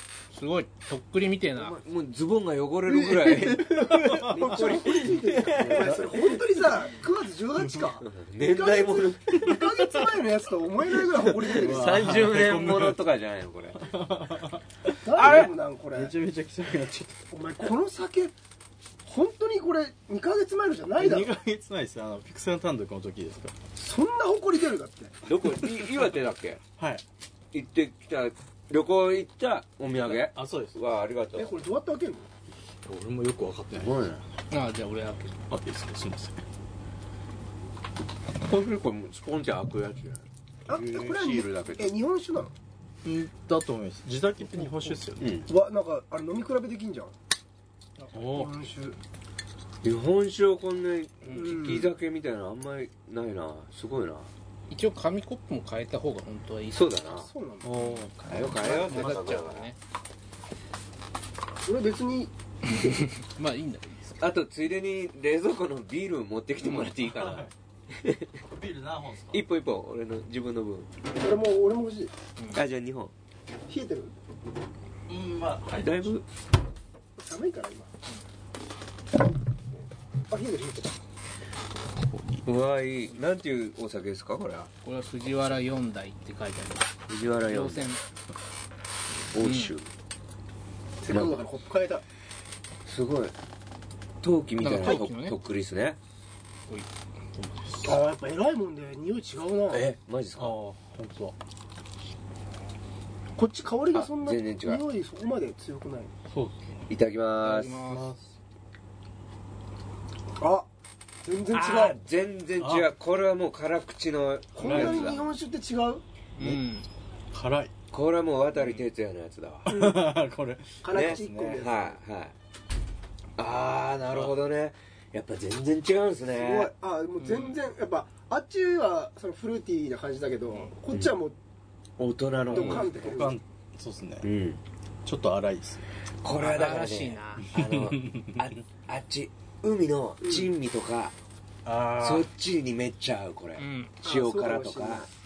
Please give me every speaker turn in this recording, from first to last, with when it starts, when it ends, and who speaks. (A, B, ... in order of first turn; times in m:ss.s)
0:00.3-0:01.8 A
0:01.6-0:06.2 B
0:02.9-0:12.1 C
0:03.5-0:04.9 D
0:05.6-0:06.3 D
0:07.6-0:07.9 D
0:08.0-0:09.8 B
0:11.4-0:13.8 B
0:11.5-0:13.0 D
0:13.7-0:17.2 D
0:15.0-0:16.1 C
0:15.2-0:15.5 B
0:17.3-0:18.3 C
0:19.0-0:21.3 C
0:21.0-0:23.5 D
0:23.8-0:25.2 C
0:25.2-0:26.6 B
0:25.6-0:25.9 D
0:26.8-0:27.0 D
0:27.5-0:31.6 B
0:30.0-0:30.8 D
0:31.3-0:32.3 C
0:32.8-0:34.1 D
0:33.8-0:34.2 B
0:34.5-0:35.4 A
0:35.5-0:36.4 D
0:38.4-0:40.2 B
0:40.7-0:42.5 C
0:40.7-0:41.3 D
0:41.1-0:41.9 B
0:43.0-0:45.4 D
0:44.5-0:45.0 A
0:45.2-0:45.5 B
0:45.5-0:47.1 C
0:48.1-0:48.5 D
0:48.3-0:49.0 C
0:49.8-0:54.3 B
0:51.2-0:51.8 A
0:51.3-0:51.9 C
0:54.7-0:56.9 A
0:56.7-0:57.3 B
0:57.2-0:57.8 C
0:57.6-0:59.3 D
0:57.8-0:59.8 A
0:58.3-0:59.7 B
1:01.6-1:03.0 C
1:02.6-1:04.2 A
1:04.2-1:08.3 B
1:06.6-1:06.9 A
1:07.0-1:07.5 D
1:08.5-1:09.4 D
1:09.3-1:10.9 B
1:11.2-1:12.1 C
1:12.5-1:13.1 B
1:13.7-1:14.1 C
1:15.1-1:16.1 D
1:15.8-1:16.2 B
1:17.2-1:17.9 C
1:20.3-1:21.0 C
1:22.4-1:24.7 B
1:24.8-1:26.9 A
1:27.1-1:27.9 B
1:27.4-1:28.0 A
1:29.3-1:29.9 B
1:29.4-1:29.7 A
1:31.0-1:32.0 C
1:31.1-1:31.4 B
1:32.8-1:33.3 B
1:34.2-1:36.0 B
1:34.6-1:35.4 A
1:37.4-1:38.0 D
1:37.8-1:39.9 C
1:39.7-1:40.5 B
1:40.4-1:41.4 D
1:43.4-1:46.1 C
1:43.9-1:44.8 B
1:46.3-1:46.8 D
1:46.9-1:47.8 B
1:47.4-1:48.1 A
1:47.6-1:48.3 D
1:50.4-1:50.7 C
1:51.2-1:52.0 C
1:51.5-1:55.2 B
1:52.6-1:52.9 D
1:54.5-1:56.0 C
1:54.6-1:55.2 D
1:56.4-1:56.9 A
1:57.3-1:57.7 D
1:57.9-1:59.7 B
1:59.7-2:01.6 D
1:59.7-2:00.1 C
2:00.8-2:02.0 C
2:00.9-2:02.3 B
2:03.4-2:06.7 B
2:06.3-2:11.4 C
2:07.2-2:07.6 A
2:12.0-2:12.9 B
2:12.5-2:13.4 C
2:12.5-2:14.3 D
2:14.2-2:14.6 B
2:15.0-2:15.9 D
2:16.2-2:21.1 B
2:16.4-2:17.5 A
2:17.5-2:18.4 D
2:20.2-2:20.5 C
2:21.6-2:22.3 D
2:22.0-2:25.1 B
2:23.6-2:23.9 A
2:24.0-2:25.1 C